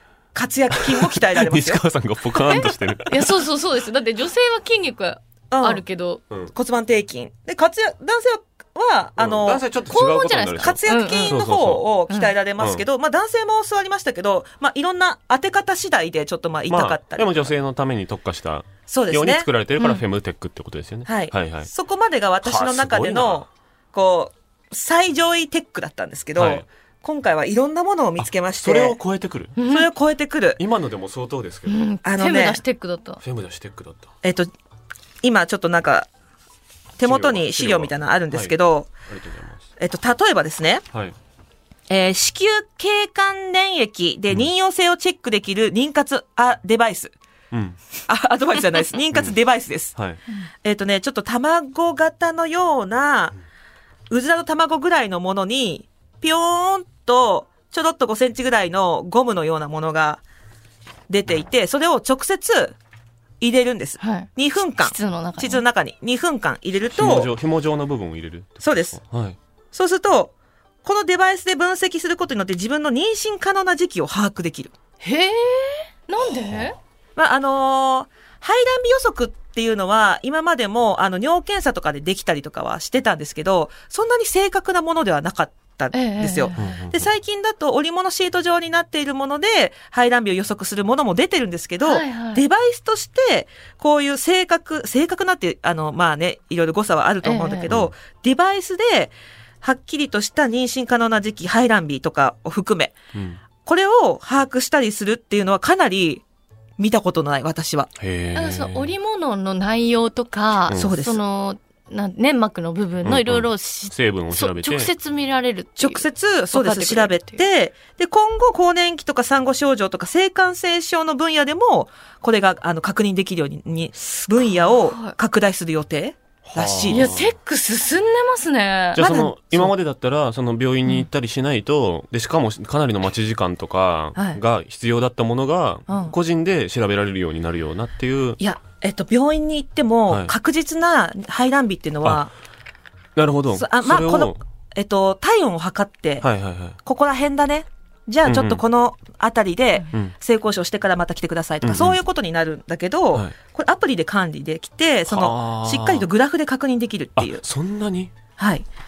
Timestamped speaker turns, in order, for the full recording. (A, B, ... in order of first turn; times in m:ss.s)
0:00.3-0:01.8 A
0:00.7-0:03.4 B
0:02.5-0:06.2 C
0:05.5-0:05.8 A
0:06.5-0:09.6 A
0:09.2-0:11.8 B
0:09.9-0:11.4 C
0:10.6-0:17.5 A
0:12.6-0:12.8 B
0:16.7-0:21.7 B
0:18.9-0:19.5 A
0:21.0-0:29.0 A
0:22.4-0:23.5 B
0:26.4-0:26.6 B
0:28.2-0:29.5 B
0:29.6-0:29.9 C
0:29.7-0:30.6 A
0:30.6-0:31.8 B
0:31.6-0:33.2 C
0:32.0-0:32.6 A
0:33.2-0:34.1 B
0:34.2-0:34.5 A
0:35.2-0:36.1 A
0:37.0-0:38.9 A
0:37.0-0:39.6 B
0:39.8-0:40.8 A
0:41.9-0:47.1 A
0:47.5-0:47.8 B
0:48.1-0:50.0 A
0:50.6-0:53.4 A
0:54.1-1:00.2 A
1:01.1-1:02.8 A
1:03.4-1:07.3 A
1:04.0-1:05.6 C
1:06.9-1:09.4 B
1:08.6-1:09.0 A
1:09.7-1:10.3 A
1:10.8-1:14.7 A
1:15.0-1:16.8 C
1:17.2-1:42.9 A
1:25.9-1:26.7 C
1:26.5-1:27.1 B
1:31.8-1:32.4 C
1:37.2-1:37.7 C
1:43.1-1:43.4 B
1:43.6-1:46.2 A
1:46.8-1:47.9 A
1:48.0-1:48.9 B
1:48.3-1:57.4 C
1:50.7-1:51.2 A
1:53.0-1:54.9 B
1:55.8-2:07.2 A
2:04.4-2:05.1 C
2:06.4-2:07.3 B
2:06.9-2:09.0 C
2:08.9-2:18.4 B
2:09.0-2:09.7 A
2:14.1-2:14.4 A
2:15.9-2:16.1 A
2:18.4-2:22.3 A
2:20.1-2:20.3 B
2:23.2-2:24.4 B
2:23.5-2:26.3 A
2:26.2-2:26.8 B
2:26.8-2:37.4 A
2:28.2-2:28.6 B
2:31.6-2:32.0 B
2:35.1-2:36.1 B
2:37.2-2:38.1 B
2:38.4-2:38.6 A